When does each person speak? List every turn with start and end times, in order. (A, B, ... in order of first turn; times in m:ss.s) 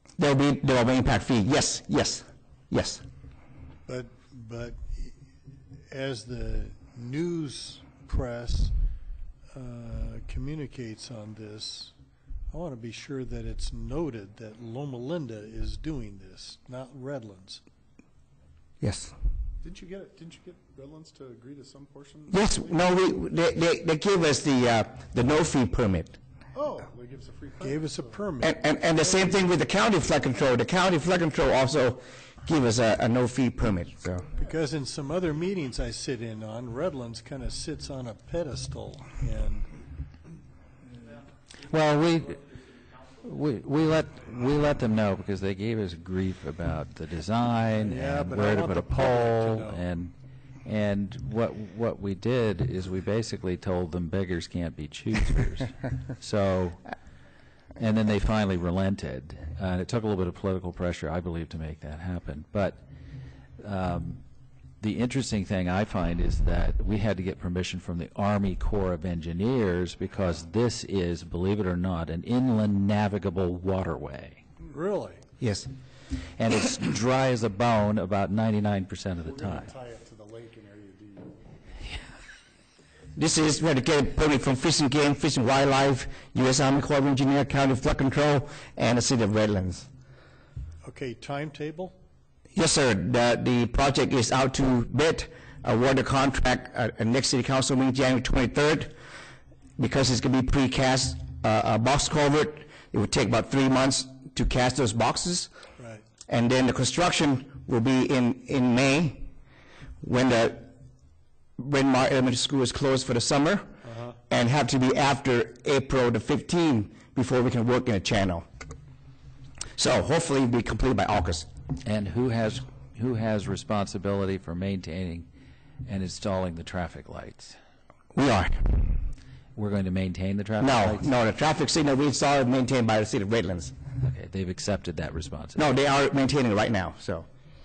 0:00.2-0:03.0 A
0:03.9-0:05.2 B
0:05.9-0:08.7 B
0:09.5-0:11.9 B
0:12.5-0:17.6 B
0:18.8-0:19.1 A
0:19.6-0:22.7 C
0:22.3-0:26.2 A
0:26.5-0:28.2 C
0:27.6-0:29.3 B
0:28.4-0:34.3 A
0:34.3-0:39.7 B
0:41.6-0:42.4 D
0:43.2-0:50.1 D
0:47.8-0:49.8 B
0:50.6-0:56.9 D
0:57.8-1:02.8 D
1:03.6-1:04.2 D
1:04.8-1:14.4 D
1:14.6-1:15.2 B
1:15.4-1:15.7 A
1:16.4-1:19.7 D
1:19.2-1:21.4 C
1:23.2-1:29.9 A
1:30.8-1:32.0 B
1:32.6-1:39.0 A
1:39.8-1:45.5 A
1:45.8-1:46.0 B
1:46.3-1:49.3 A
1:50.0-1:50.7 A
1:51.6-1:53.7 A
1:53.8-1:54.2 B
1:54.3-1:58.4 A
1:59.8-2:01.5 A
2:01.8-2:05.3 D
2:05.8-2:07.6 D
2:08.2-2:09.0 A
2:09.6-2:11.1 D
2:10.6-2:13.7 A
2:14.0-2:15.7 D
2:15.6-2:17.3 A